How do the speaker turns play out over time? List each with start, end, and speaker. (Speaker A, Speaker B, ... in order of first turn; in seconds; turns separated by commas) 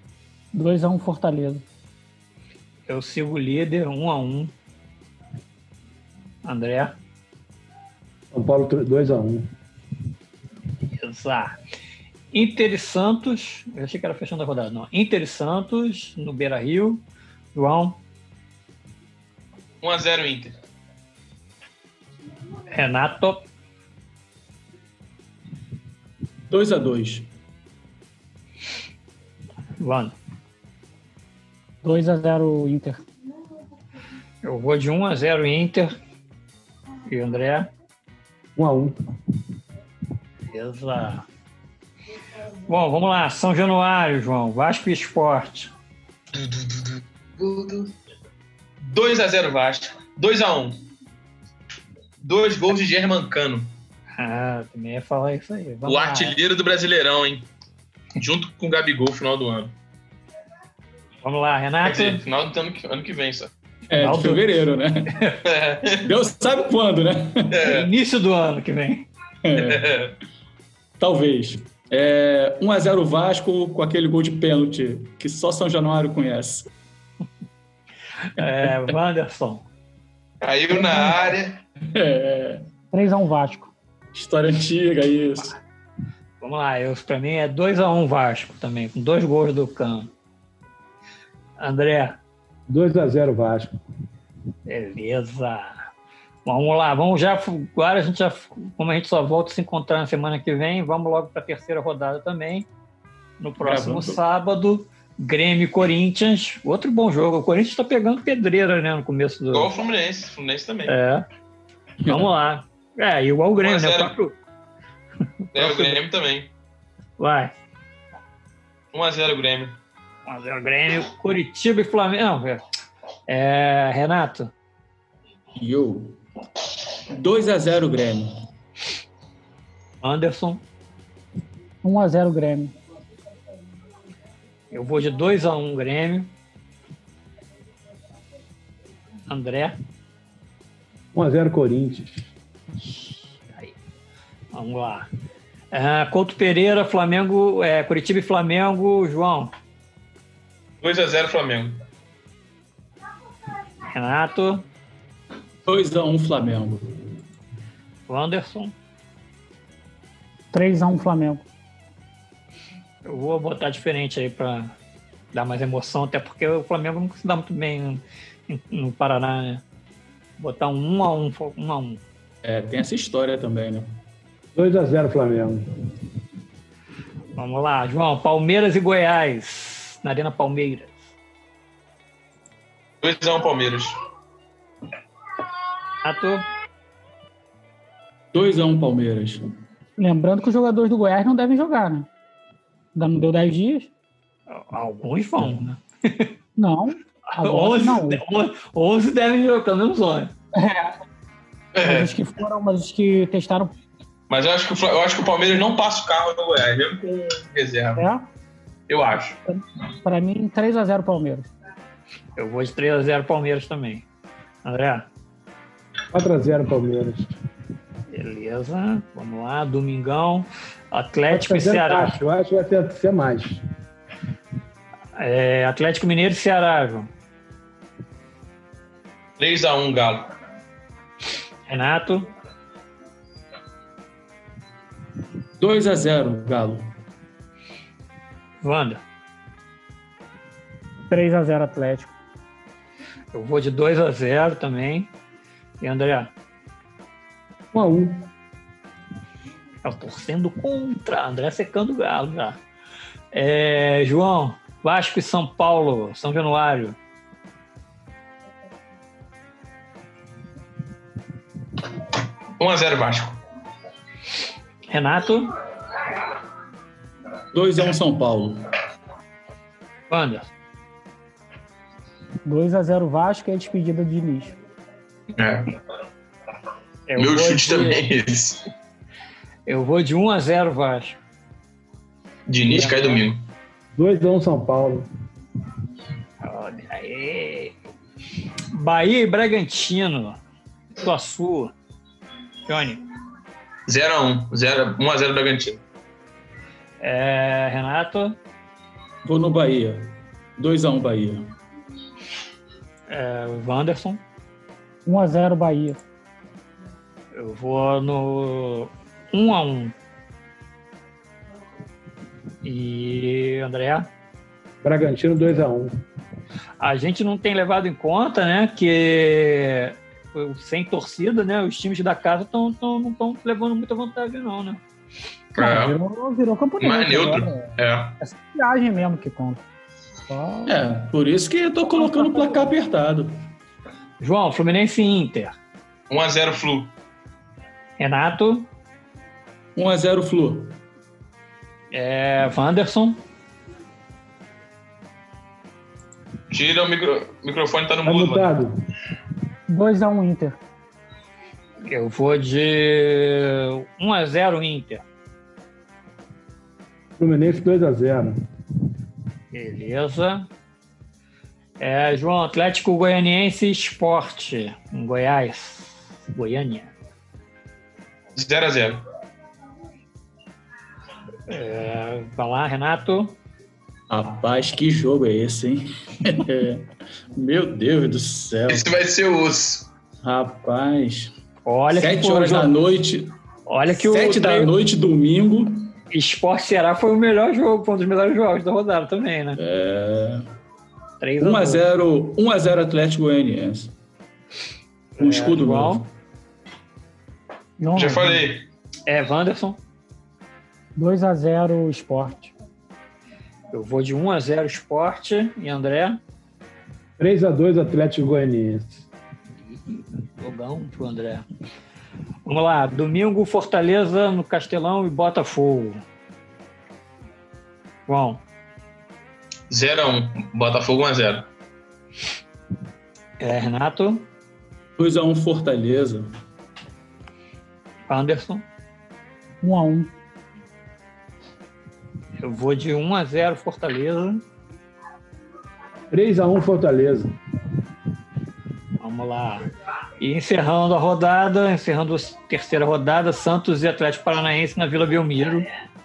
Speaker A: 0.5-1.6, Speaker B: 2.9-4.5, Speaker B: 6.4-7.0, Speaker C: 8.3-9.5, Speaker B: 11.0-11.6, Speaker B: 12.3-17.0, Speaker B: 17.6-18.0, Speaker D: 19.8-20.6, Speaker B: 22.7-23.5, Speaker E: 26.5-27.3, Speaker B: 29.8-30.1, Speaker A: 31.8-33.0, Speaker B: 34.4-35.9, Speaker B: 37.1-37.7, Speaker C: 38.6-39.0, Speaker B: 40.5-41.2, Speaker B: 42.7-45.7, Speaker D: 46.3-47.9, Speaker D: 48.8-50.8, Speaker D: 52.2-53.7, Speaker B: 54.2-56.4, Speaker D: 55.9-57.5, Speaker D: 58.2-59.7, Speaker B: 61.2-62.2, Speaker D: 61.8-63.5, Speaker E: 63.9-65.2, Speaker B: 64.0-64.5, Speaker B: 65.1-65.4, Speaker D: 65.5-66.1, Speaker E: 66.0-67.6, Speaker D: 67.5-67.9, Speaker B: 67.6-69.1, Speaker E: 69.4-69.9, Speaker D: 69.5-70.2, Speaker E: 71.0-76.7, Speaker B: 78.2-79.7, Speaker E: 78.4-78.9, Speaker D: 80.4-81.6, Speaker A: 80.7-81.2, Speaker E: 81.9-82.7, Speaker A: 82.9-83.7, Speaker E: 84.1-85.5, Speaker B: 86.4-90.1, Speaker B: 91.6-92.2, Speaker C: 92.7-93.8, Speaker B: 94.7-95.8, Speaker B: 96.5-102.7, Speaker B: 103.4-109.7, Speaker E: 103.6-104.2, Speaker D: 109.5-111.0, Speaker B: 110.9-111.2, Speaker E: 112.0-112.3, Speaker B: 112.1-114.4, Speaker D: 113.6-114.1, Speaker B: 115.5-116.0, Speaker D: 115.5-116.5, Speaker B: 117.2-117.5, Speaker D: 118.9-119.8, Speaker B: 120.3-122.6, Speaker B: 123.3-124.5, Speaker E: 125.6-126.2, Speaker E: 127.1-128.3, Speaker B: 130.0-130.6, Speaker A: 131.8-132.7, Speaker B: 134.7-136.3, Speaker B: 139.3-139.8, Speaker C: 141.1-142.3, Speaker B: 143.5-143.8, Speaker B: 144.5-145.1, Speaker B: 145.7-149.5, Speaker D: 150.8-151.8, Speaker B: 153.9-154.7, Speaker E: 155.7-157.0, Speaker B: 158.1-158.8, Speaker A: 160.5-161.4, Speaker B: 163.1-164.8, Speaker B: 165.3-169.6, Speaker B: 170.4-172.0, Speaker E: 172.4-173.9, Speaker C: 174.6-175.6, Speaker B: 177.4-181.1, Speaker D: 183.0-183.9, Speaker B: 186.0-186.4, Speaker E: 188.3-189.4, Speaker A: 190.0-192.1, Speaker A: 192.9-193.9, Speaker B: 194.5-196.4, Speaker A: 196.6-198.2, Speaker B: 197.3-200.3, Speaker A: 200.6-201.0, Speaker D: 201.8-202.1, Speaker A: 201.8-203.7, Speaker D: 204.3-208.1, Speaker A: 208.0-208.3, Speaker D: 208.9-209.4, Speaker A: 209.5-211.5, Speaker B: 212.4-214.1, Speaker B: 214.7-215.1, Speaker C: 216.1-217.4, Speaker B: 218.1-222.2, Speaker C: 221.3-223.6, Speaker B: 225.2-227.1, Speaker D: 229.4-230.3, Speaker B: 231.7-232.3, Speaker E: 235.6-236.9, Speaker B: 238.6-239.0, Speaker A: 241.1-242.1, Speaker B: 243.3-245.1, Speaker B: 245.8-246.3, Speaker C: 247.7-248.3, Speaker B: 249.8-252.6, Speaker B: 253.3-257.0, Speaker D: 262.6-263.4, Speaker B: 264.9-265.5, Speaker E: 267.5-268.7, Speaker B: 270.1-270.5, Speaker A: 272.4-274.6, Speaker D: 275.3-275.7, Speaker B: 277.1-278.0, Speaker D: 277.2-278.7, Speaker B: 279.7-281.2, Speaker D: 282.5-283.5, Speaker C: 283.9-285.1, Speaker B: 286.4-287.8, Speaker B: 288.7-290.4, Speaker B: 291.0-291.8, Speaker B: 292.7-293.0, Speaker D: 293.9-295.8, Speaker B: 297.0-298.4, Speaker E: 299.2-301.4, Speaker B: 303.1-304.2, Speaker A: 305.1-306.0, Speaker B: 307.3-309.9, Speaker B: 312.6-314.1, Speaker C: 314.8-316.0, Speaker B: 316.8-324.8, Speaker D: 325.6-326.0, Speaker A: 325.6-329.6, Speaker D: 326.8-328.2, Speaker A: 330.3-330.8, Speaker E: 330.7-333.4, Speaker A: 331.8-332.6, Speaker B: 334.2-335.6, Speaker D: 336.1-336.9, Speaker B: 338.0-338.7, Speaker E: 339.8-340.8, Speaker B: 341.9-343.2, Speaker D: 346.5-348.5, Speaker C: 348.1-348.7, Speaker A: 349.7-350.6, Speaker B: 351.9-355.0, Speaker C: 357.2-358.4, Speaker B: 359.5-360.5, Speaker B: 361.8-366.9, Speaker D: 368.4-369.0, Speaker B: 371.5-373.4, Speaker E: 374.1-378.9, Speaker D: 378.7-379.9, Speaker E: 380.2-381.3, Speaker B: 381.6-382.7, Speaker E: 381.9-383.3, Speaker B: 383.7-384.7, Speaker E: 383.9-385.9, Speaker B: 386.1-389.6, Speaker E: 389.6-390.5, Speaker B: 391.2-391.8, Speaker E: 391.4-393.9, Speaker B: 395.2-396.0, Speaker E: 395.2-396.1, Speaker A: 397.8-398.4, Speaker D: 397.9-398.6, Speaker B: 399.1-399.8, Speaker A: 401.0-402.5, Speaker B: 403.7-406.2, Speaker C: 407.2-409.1, Speaker B: 409.6-411.4, Speaker B: 412.5-416.0, Speaker B: 418.1-418.4, Speaker D: 419.7-421.5, Speaker B: 423.4-424.3, Speaker E: 425.0-426.3, Speaker B: 428.1-428.6, Speaker A: 429.6-430.1, Speaker B: 432.4-434.4, Speaker C: 436.1-437.3, Speaker B: 439.0-439.7, Speaker B: 440.2-445.7